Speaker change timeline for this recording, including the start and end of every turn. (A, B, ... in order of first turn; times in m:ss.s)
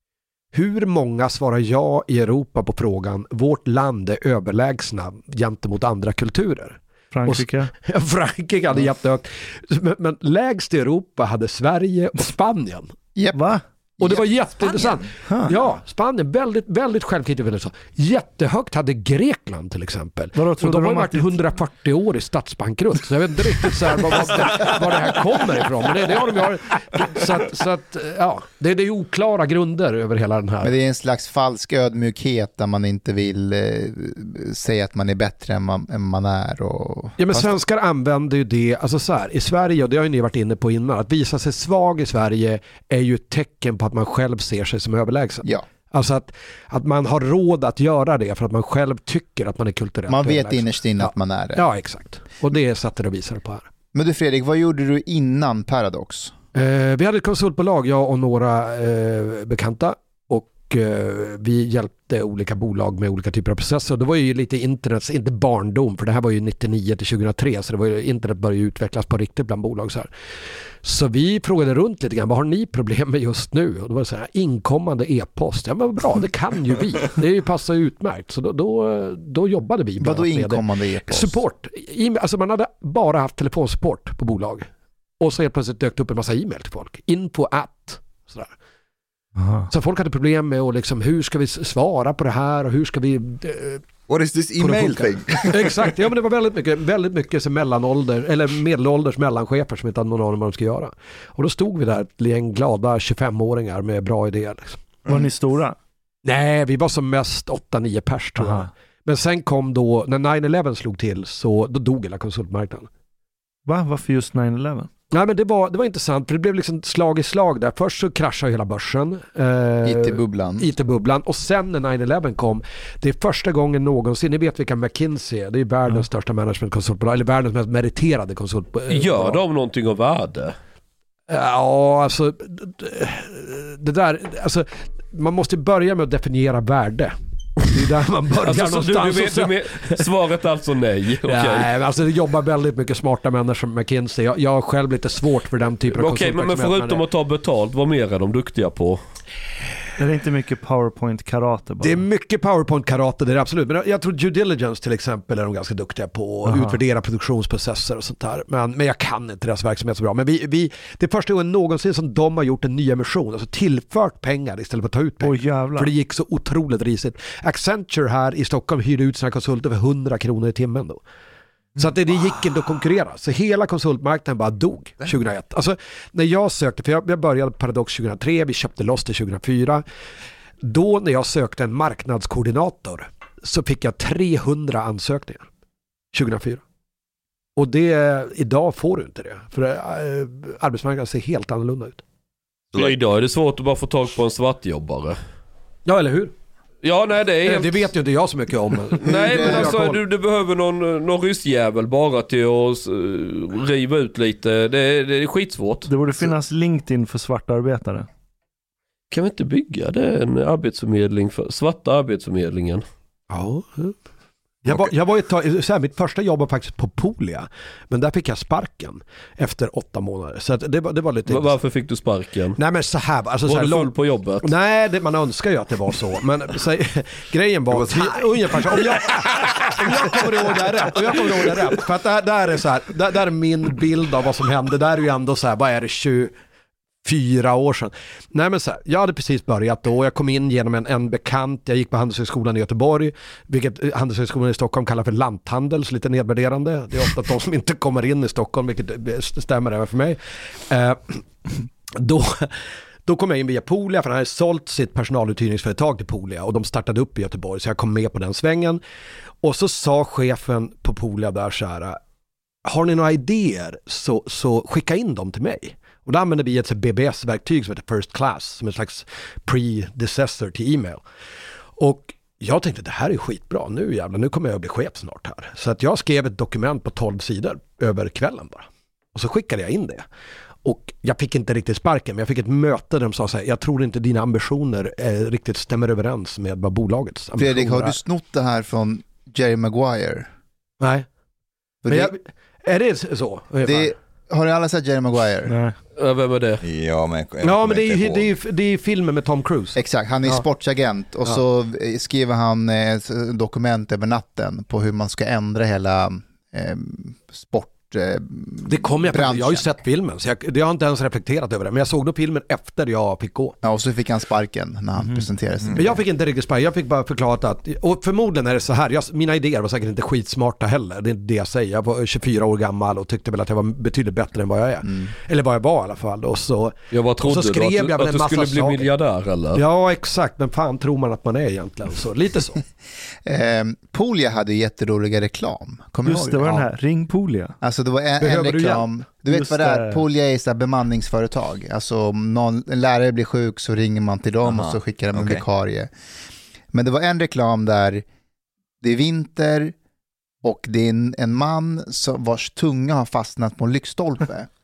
0:00.5-0:12.9 A
0:07.1-0:07.7 B
0:13.2-0:14.2 C
0:13.3-0:13.6 B
0:14.0-0:30.7 A
0:14.7-0:15.0 D
0:15.2-0:15.5 B
0:20.3-0:21.4 B
0:30.6-0:37.6 C
0:37.2-0:53.7 A
0:50.1-0:51.6 C
0:53.9-0:56.3 C
0:56.5-1:10.1 A
1:10.8-1:24.7 A
1:20.0-1:21.4 C
1:25.2-1:28.5 A
1:29.4-1:29.7 B
1:29.7-1:33.8 A
1:34.1-1:35.9 D
1:34.6-1:44.8 A
1:45.0-1:45.8 B
1:46.2-1:52.9 A
1:48.4-1:48.7 B
1:53.6-1:54.9 B
1:55.1-2:09.4 A
1:59.8-2:00.7 C
2:08.9-2:10.5 E
2:11.3-2:20.0 A
2:18.4-2:21.7 E
2:21.2-2:27.0 A
2:25.9-2:29.0 E
2:30.0-2:32.0 B
2:31.8-2:51.0 A
2:36.4-2:36.8 B
2:45.2-2:45.9 B
2:51.8-2:59.8 A
3:00.6-3:05.4 A
3:06.1-3:06.6 A
3:07.6-3:12.0 A
3:12.7-3:15.2 E
3:15.8-3:16.3 A
3:16.8-3:17.8 E
3:17.4-3:20.0 A
3:19.0-3:25.9 E
3:19.0-3:19.8 C
3:25.9-3:28.1 B
3:29.1-3:32.8 E
3:33.3-3:34.0 A
3:34.6-3:41.6 A
3:41.3-3:42.6 E
3:42.6-3:56.3 A
3:43.4-3:44.5 E
3:57.0-4:11.2 A
4:11.9-4:18.8 A
4:19.4-4:22.0 A
4:22.6-4:31.0 A
4:31.8-4:40.0 A
4:40.6-4:48.0 A
4:47.4-4:50.3 C
4:50.8-4:51.0 A
4:51.8-4:52.1 C
4:51.9-4:53.9 A
4:53.6-4:55.5 C
4:55.5-4:55.8 B
4:56.0-4:56.6 E
4:56.6-4:58.3 D
4:57.4-5:00.4 A
4:59.8-5:09.7 C
5:08.6-5:13.6 A
5:13.6-5:16.0 C
5:15.7-5:28.9 A
5:26.9-5:29.6 E
5:29.5-5:32.6 A
5:33.2-5:36.6 C
5:36.0-5:37.6 B
5:37.6-5:45.9 C
5:38.2-5:38.9 A
5:39.3-5:40.0 B
5:44.4-5:45.4 D
5:46.7-5:48.0 C
5:48.8-5:49.7 C
5:50.4-5:54.5 C